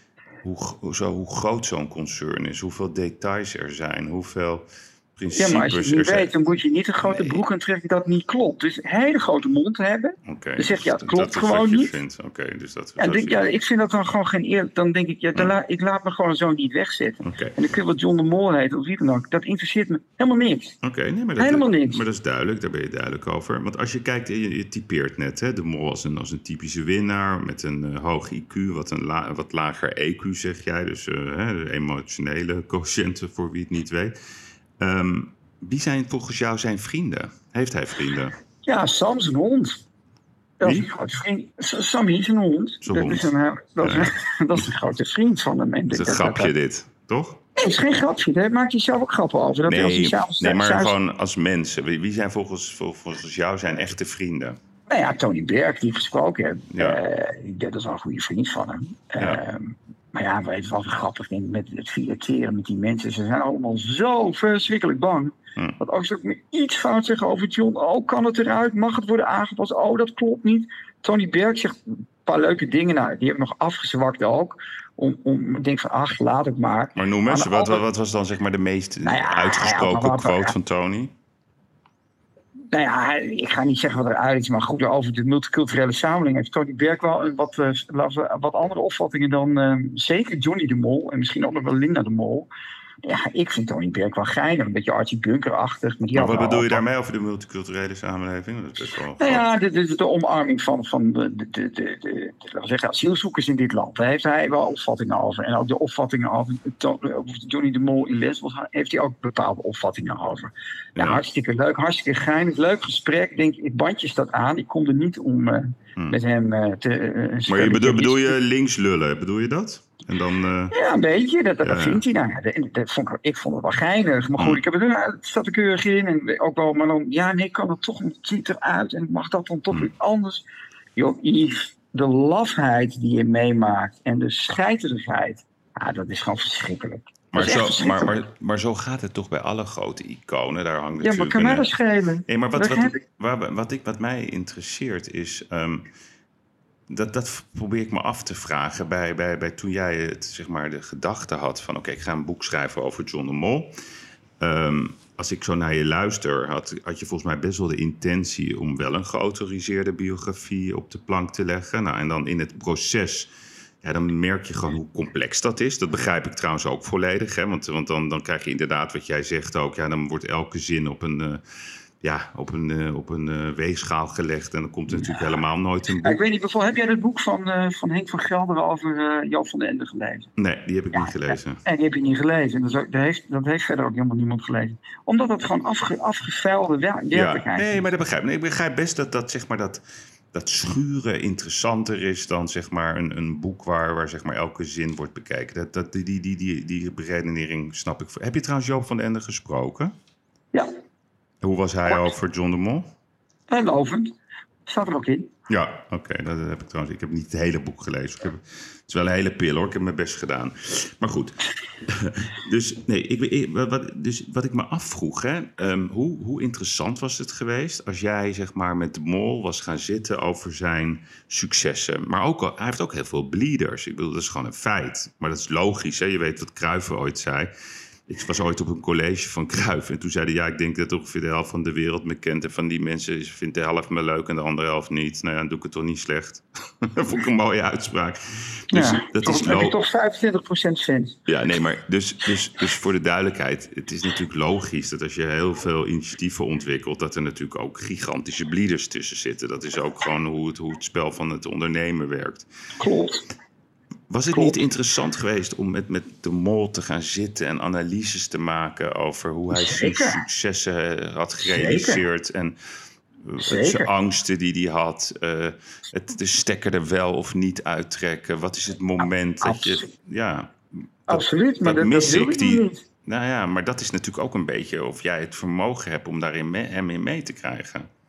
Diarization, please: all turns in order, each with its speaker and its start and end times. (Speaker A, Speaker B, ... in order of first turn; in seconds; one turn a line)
Speaker A: 0.4-6.3
Speaker B: 5.3-12.0
Speaker A: 7.0-7.4
Speaker A: 10.3-13.4
Speaker B: 13.0-20.8
Speaker A: 17.2-17.6
Speaker A: 20.8-34.1
Speaker B: 21.4-22.0
Speaker A: 34.8-38.4
Speaker B: 38.6-39.9
Speaker B: 40.6-46.5
Speaker A: 40.6-40.9
Speaker A: 42.8-43.3
Speaker A: 43.8-44.1
Speaker A: 45.9-47.4
Speaker B: 47.6-50.9
Speaker A: 49.6-54.6
Speaker B: 54.9-77.8
Speaker A: 56.7-57.0
Speaker A: 77.0-81.1
Speaker B: 79.0-80.5
Speaker B: 82.7-92.5
Speaker B: 93.0-96.8
Speaker A: 96.1-99.5
Speaker B: 99.2-118.4
Speaker A: 111.0-111.2
Speaker A: 117.5-120.7
Speaker B: 120.7-138.2
Speaker A: 121.6-122.0
Speaker A: 124.4-124.6
Speaker A: 137.3-141.7
Speaker B: 141.0-143.0
Speaker A: 142.3-145.9
Speaker A: 146.9-153.7
Speaker A: 154.4-163.3
Speaker A: 163.8-171.4
Speaker A: 172.0-176.2
Speaker B: 174.9-175.3
Speaker B: 176.0-180.3
Speaker A: 180.4-181.6
Speaker B: 180.9-187.8
Speaker A: 187.1-189.8
Speaker A: 190.3-199.9
Speaker A: 201.4-202.9
Speaker B: 203.5-204.1
Speaker B: 204.7-205.3
Speaker A: 205.5-227.5
Speaker A: 228.1-239.8
Speaker B: 238.7-241.2
Speaker A: 241.3-252.5
Speaker B: 252.8-253.2
Speaker A: 254.1-262.6
Speaker B: 259.5-260.3
Speaker B: 261.5-262.0
Speaker A: 263.2-270.6
Speaker B: 263.4-263.9
Speaker B: 269.0-269.9
Speaker A: 271.1-277.9
Speaker B: 271.1-272.8